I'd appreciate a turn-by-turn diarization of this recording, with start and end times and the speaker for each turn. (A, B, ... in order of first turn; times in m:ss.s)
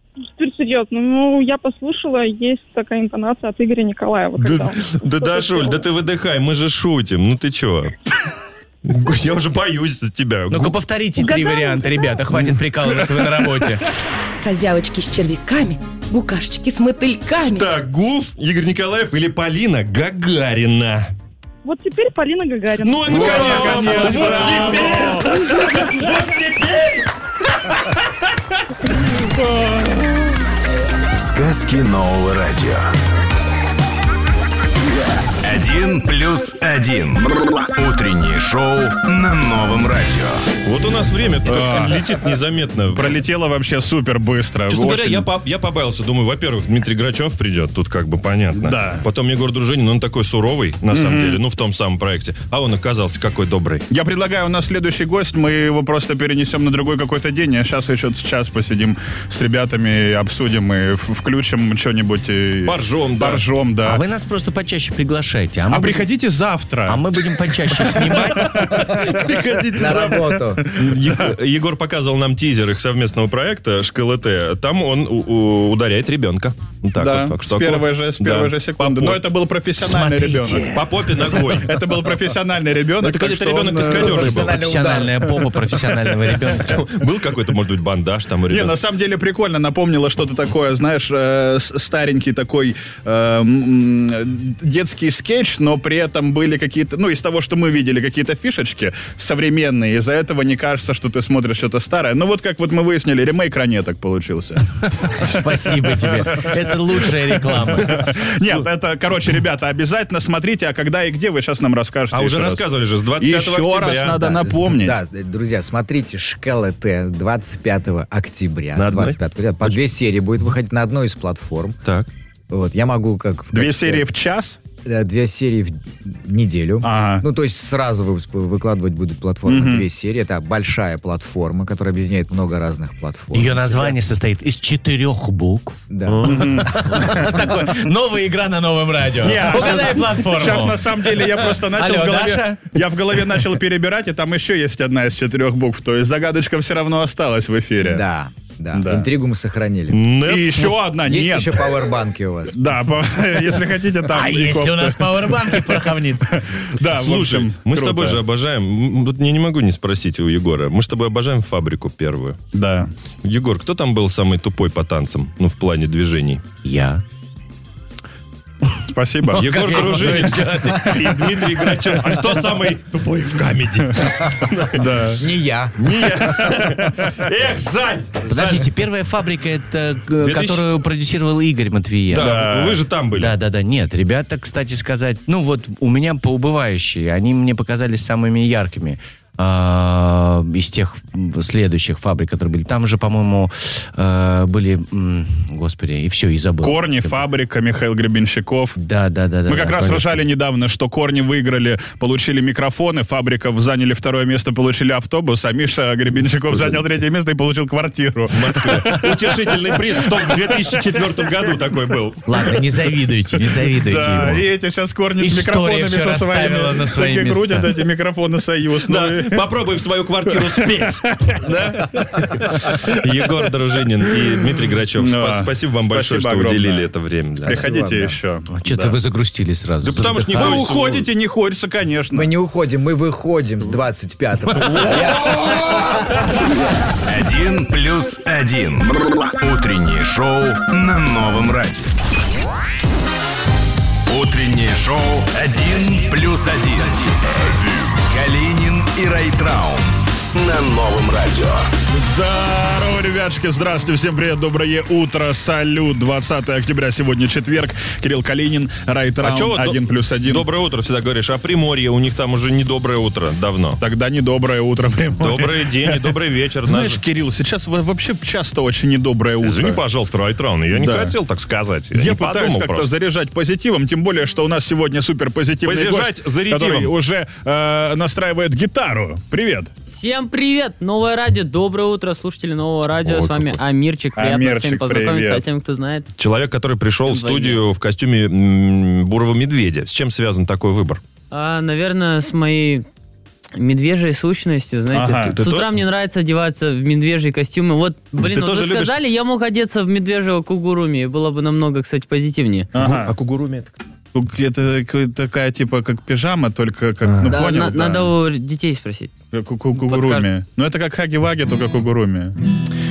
0:00.3-0:05.8 A
0:04.4-0:08.0 B
0:08.8-0:10.8 B
0:10.5-0:13.8 C
0:11.2-0:12.0 A
0:14.4-0:17.6 D
0:17.4-0:21.1 B
0:21.6-0:23.9 A
0:22.8-0:27.0 B
0:23.1-0:25.6 E
0:31.2-0:32.9 F
0:35.4-0:40.5 F
0:40.6-0:43.2 B
0:41.5-0:42.2 E
0:42.9-0:45.3 E
0:44.7-0:53.9 B
0:48.6-0:49.0 E
0:50.9-0:51.4 E
0:53.9-1:04.0 E
1:02.6-1:03.4 B
1:03.8-1:06.1 C
1:05.7-1:09.3 E
1:06.9-1:08.7 C
1:08.3-1:19.3 B
1:09.7-1:10.6 G
1:10.6-1:11.3 E
1:17.0-1:20.7 E
1:19.8-1:21.4 C
1:20.7-1:21.7 B
1:21.3-1:24.3 E
1:23.0-1:24.7 B
1:24.0-1:26.8 C
1:24.2-1:25.5 G
1:26.5-1:28.8 B
1:28.5-1:55.0 E
1:44.9-1:48.1 C
1:52.1-1:54.4 B
1:54.3-2:01.8 G
1:58.8-1:59.8 B
2:01.8-2:02.1 B
2:02.5-2:04.1 G
2:03.5-2:04.6 E
2:04.8-2:14.0 G
2:06.8-2:07.2 E
2:09.5-2:09.8 E
2:13.3-2:22.8 C
2:15.9-2:16.4 G
2:16.1-2:16.4 B
2:16.2-2:16.8 E
2:19.2-2:28.0 E
2:27.8-2:30.0 G
2:28.7-2:29.1 E
2:29.9-2:30.8 B
2:30.2-2:31.6 E
2:31.0-2:32.6 G
2:32.5-2:38.2 E
2:34.1-2:36.4 C
2:36.9-2:42.4 B
2:42.5-2:42.9 E
2:43.2-2:46.4 B
2:46.6-2:47.0 C
2:48.9-2:52.2 E
2:49.3-2:51.2 C
2:49.4-2:55.1 B
2:54.7-2:55.2 E
2:55.2-2:55.8 G
2:55.8-2:58.8 B
2:56.3-2:57.2 E
2:58.3-3:02.5 C
3:00.2-3:00.7 B
3:02.1-3:03.4 B
3:02.1-3:02.8 E
3:03.1-3:17.2 C
3:16.6-3:18.8 E
3:18.8-3:20.2 C
3:19.5-3:30.8 E
3:28.3-3:32.4 B
3:32.3-3:34.5 C
3:33.5-3:39.5 E
3:35.2-3:37.8 C
3:38.9-3:47.7 B
3:40.3-3:42.8 E
3:45.0-3:46.9 E
3:47.4-3:48.2 G
3:47.4-3:49.0 E
3:48.5-3:50.7 C
3:49.8-3:51.1 B
3:50.3-3:52.3 E
3:52.1-3:55.9 G
3:57.1-4:01.9 F
4:04.1-4:11.7 F
4:11.9-4:20.5 E
4:19.2-4:23.8 B
4:23.8-4:29.8 E
4:25.2-4:27.0 B
4:29.4-4:32.9 B
4:30.8-4:31.2 E
4:32.0-4:39.7 E
4:35.6-4:36.9 B
4:39.9-4:46.1 H
4:43.0-4:43.6 B
4:44.2-4:45.4 E
4:46.2-4:51.0 B
4:47.1-4:47.6 H
4:51.3-4:52.9 H
4:53.6-5:02.7 H
4:54.9-4:55.4 E
4:55.0-4:55.8 B
4:58.2-4:59.0 B
5:02.7-5:03.1 E
5:02.8-5:03.7 B
5:04.1-5:08.1 E
5:07.1-5:07.4 B
5:07.3-5:09.1 H
5:09.3-5:12.4 E
5:09.8-5:10.3 H